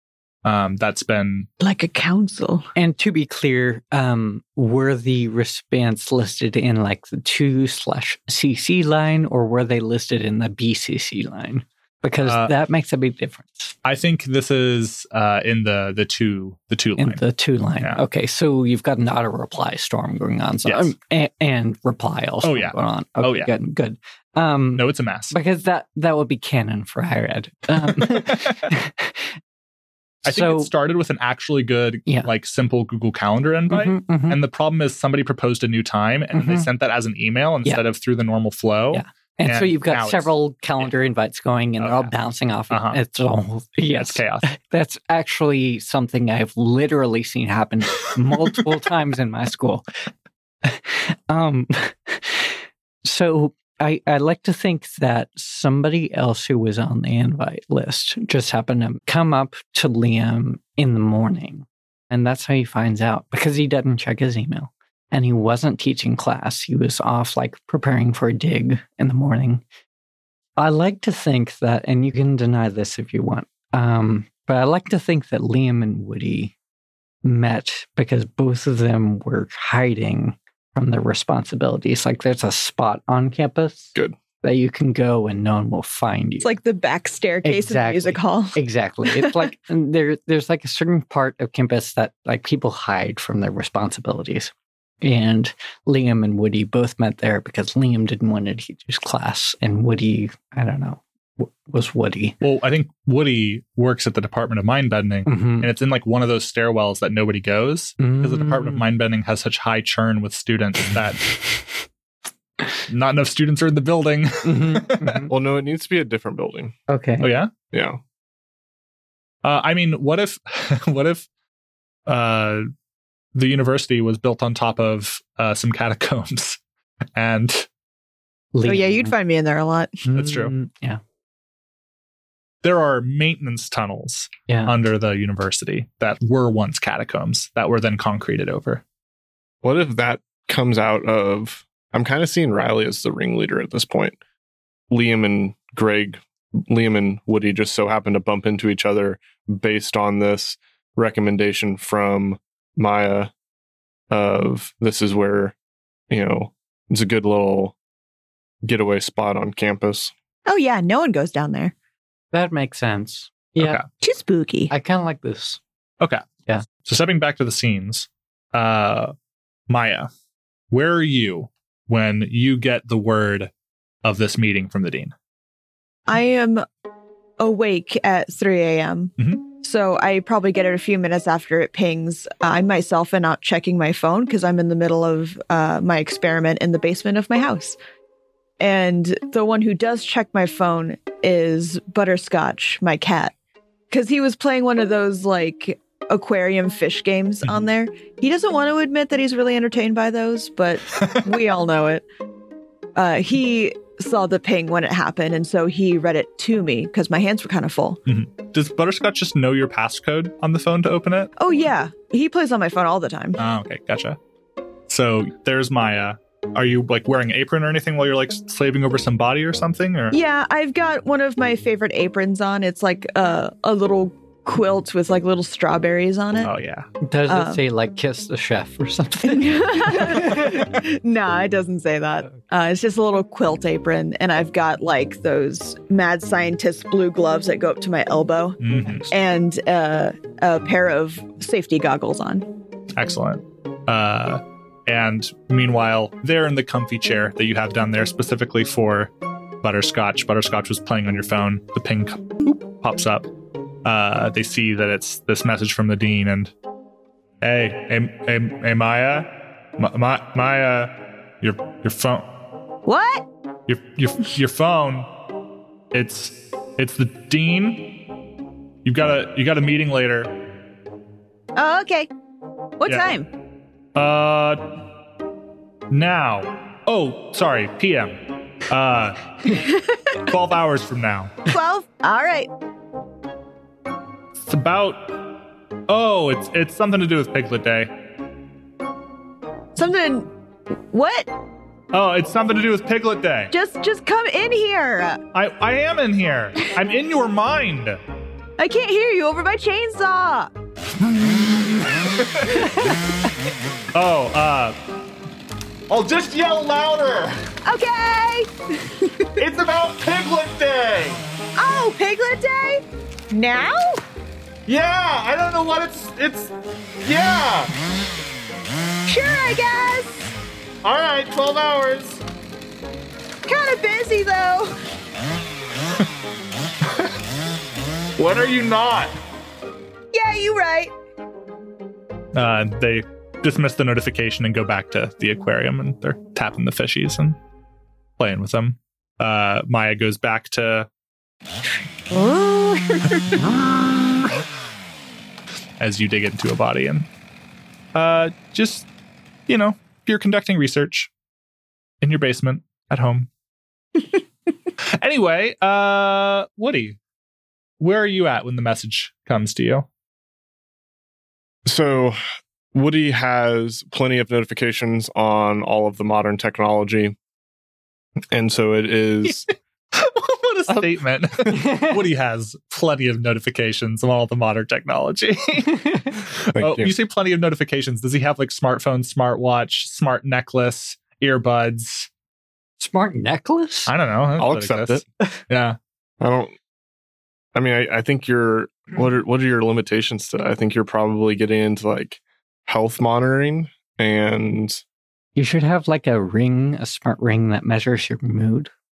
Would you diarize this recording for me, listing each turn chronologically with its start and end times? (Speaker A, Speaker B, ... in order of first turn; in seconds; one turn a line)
Speaker A: 0.4-1.5
Speaker B: 1.6-2.6
Speaker C: 2.8-13.8
Speaker A: 12.2-12.5
Speaker A: 13.8-17.2
Speaker C: 17.0-29.3
Speaker A: 20.6-20.9
Speaker A: 22.4-23.5
Speaker A: 24.8-25.3
Speaker A: 28.0-28.4
Speaker C: 30.2-30.7
Speaker A: 30.2-40.9
Speaker C: 33.7-34.4
Speaker C: 36.3-36.7
Speaker C: 38.9-49.8
Speaker A: 41.8-42.1
Speaker A: 42.7-43.0
Speaker A: 43.8-44.5
Speaker C: 50.6-69.6
Speaker C: 70.6-76.5
Speaker C: 77.2-86.5
Speaker B: 86.4-89.4
Speaker C: 87.4-102.4
Speaker A: 102.4-111.4
Speaker C: 105.3-105.7
Speaker C: 108.0-108.8
Speaker A: 112.9-115.3
Speaker C: 114.4-115.3
Speaker D: 115.3-116.8
Speaker C: 116.9-117.3
Speaker A: 117.2-117.5
Speaker D: 117.7-118.0
Speaker A: 119.4-121.3
Speaker A: 122.1-122.7
Speaker A: 123.3-126.6
Speaker A: 127.1-127.7
Speaker C: 128.5-129.1
Speaker B: 128.6-130.0
Speaker C: 130.1-131.0
Speaker A: 130.1-130.5
Speaker A: 132.6-138.8
Speaker C: 134.5-134.7
Speaker D: 139.6-144.2
Speaker D: 144.9-153.3
Speaker D: 154.1-155.6
Speaker D: 156.1-157.8
Speaker D: 158.6-160.1
Speaker B: 160.5-161.7
Speaker C: 162.3-163.8
Speaker A: 163.6-163.9
Speaker B: 164.0-164.7
Speaker C: 164.7-165.6
Speaker A: 166.8-169.1
Speaker A: 169.7-170.1
Speaker A: 170.7-173.5
Speaker A: 174.0-175.1
Speaker B: 176.1-176.7
Speaker B: 177.4-187.8
Speaker A: 179.2-179.4
Speaker B: 188.6-193.3
Speaker B: 193.9-202.1
Speaker B: 202.9-208.0
Speaker A: 208.1-211.4
Speaker B: 211.4-213.4
Speaker A: 213.4-214.2
Speaker A: 214.9-220.2
Speaker B: 220.1-226.5
Speaker A: 226.4-226.9
Speaker C: 227.0-230.7
Speaker B: 227.3-227.6
Speaker B: 229.2-242.5
Speaker A: 238.6-239.1
Speaker A: 243.0-249.1
Speaker A: 249.6-253.3
Speaker A: 253.8-256.5
Speaker A: 257.4-262.2
Speaker B: 262.9-263.3
Speaker A: 263.7-265.1
Speaker A: 265.9-268.0
Speaker A: 268.8-270.4
Speaker B: 271.6-272.1
Speaker B: 272.8-273.3
Speaker A: 273.9-274.8
Speaker A: 275.9-279.6
Speaker B: 279.5-280.2
Speaker A: 280.2-281.4
Speaker B: 281.5-282.5
Speaker A: 284.5-285.2
Speaker A: 285.9-287.9
Speaker B: 289.8-290.3
Speaker B: 290.9-291.3
Speaker A: 291.9-293.5
Speaker B: 293.5-295.2
Speaker A: 295.3-298.0
Speaker B: 298.6-300.5
Speaker A: 301.2-301.9
Speaker A: 303.9-304.8
Speaker B: 307.6-309.4
Speaker B: 311.6-314.0
Speaker A: 314.7-316.5
Speaker B: 319.1-320.3
Speaker A: 320.8-322.2
Speaker B: 323.5-324.8
Speaker A: 328.2-329.1
Speaker B: 330.1-330.9
Speaker A: 332.3-337.4
Speaker A: 338.2-340.9
Speaker B: 342.1-343.8
Speaker A: 345.8-347.1
Speaker A: 347.9-348.9
Speaker A: 349.5-351.1
Speaker A: 352.0-353.3
Speaker A: 354.9-357.0
Speaker A: 357.8-359.9
Speaker D: 361.6-362.2
Speaker D: 362.7-367.1
Speaker D: 368.3-369.5
Speaker A: 369.9-382.1
Speaker C: 371.6-371.9
Speaker D: 376.6-376.9
Speaker C: 382.8-383.9
Speaker A: 383.9-385.8
Speaker D: 384.4-385.0
Speaker D: 386.2-386.6
Speaker D: 387.6-394.8
Speaker C: 395.4-398.7